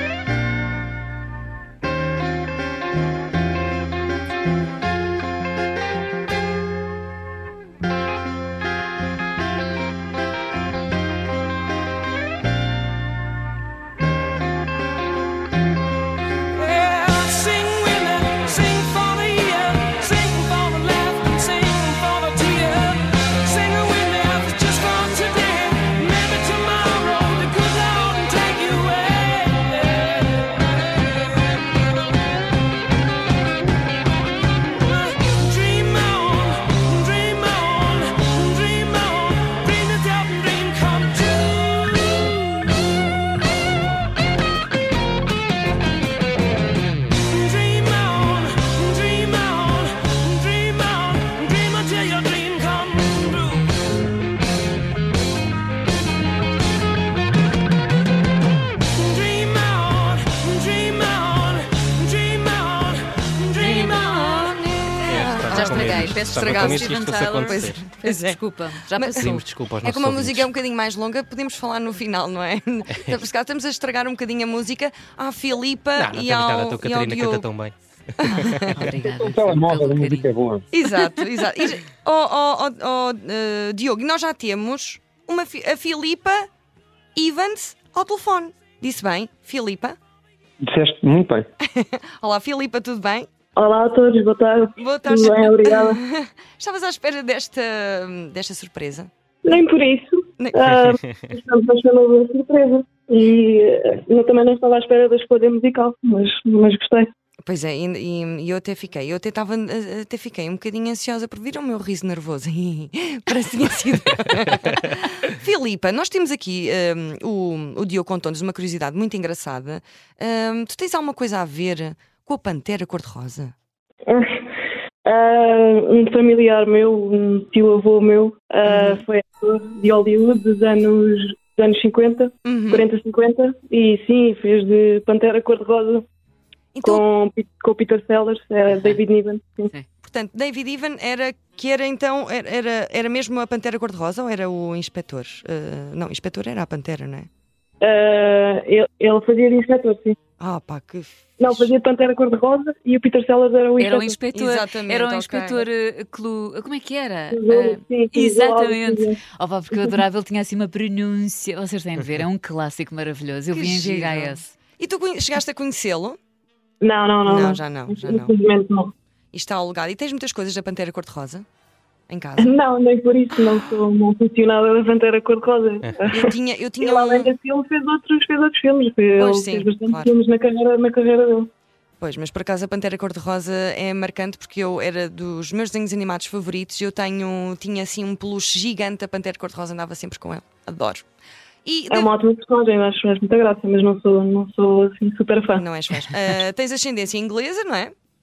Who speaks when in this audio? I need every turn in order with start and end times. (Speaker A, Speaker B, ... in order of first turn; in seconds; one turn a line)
Speaker A: 16.5-30.7
Speaker A: 34.8-42.7
Speaker A: 47.2-53.7
Speaker A: 59.0-63.1
Speaker B: 63.5-77.5
Speaker C: 65.1-67.8
Speaker D: 65.5-69.4
Speaker C: 69.2-70.5
Speaker C: 75.9-78.7
Speaker B: 78.2-78.8
Speaker D: 78.3-80.3
Speaker E: 78.8-80.7
Speaker B: 80.7-86.5
Speaker B: 87.2-90.0
Speaker E: 90.6-91.5
Speaker B: 91.7-93.3
Speaker F: 93.6-96.0
Speaker B: 94.8-99.1
Speaker F: 99.4-107.1
Speaker B: 100.4-100.7
Speaker B: 107.4-123.5
Speaker F: 124.1-124.4
Speaker F: 125.0-136.0
Speaker B: 128.6-129.0
Speaker B: 132.4-132.9
Speaker B: 136.7-137.0
Speaker F: 136.8-139.7
Speaker D: 138.7-139.0
Speaker B: 140.0-147.3
Speaker F: 147.8-150.2
Speaker B: 150.4-151.8
Speaker F: 151.4-154.2
Speaker D: 153.8-164.5
Speaker B: 154.3-155.7
Speaker F: 157.3-159.2
Speaker B: 163.5-166.2
Speaker F: 166.8-168.9
Speaker B: 167.2-168.3
Speaker B: 169.3-171.4
Speaker B: 172.1-172.5
Speaker F: 172.4-181.5
Speaker B: 173.4-173.7
Speaker B: 176.1-177.3
Speaker B: 179.2-180.1
Speaker B: 182.0-191.0
Speaker B: 191.6-192.1
Speaker F: 191.9-195.6
Speaker B: 195.6-197.9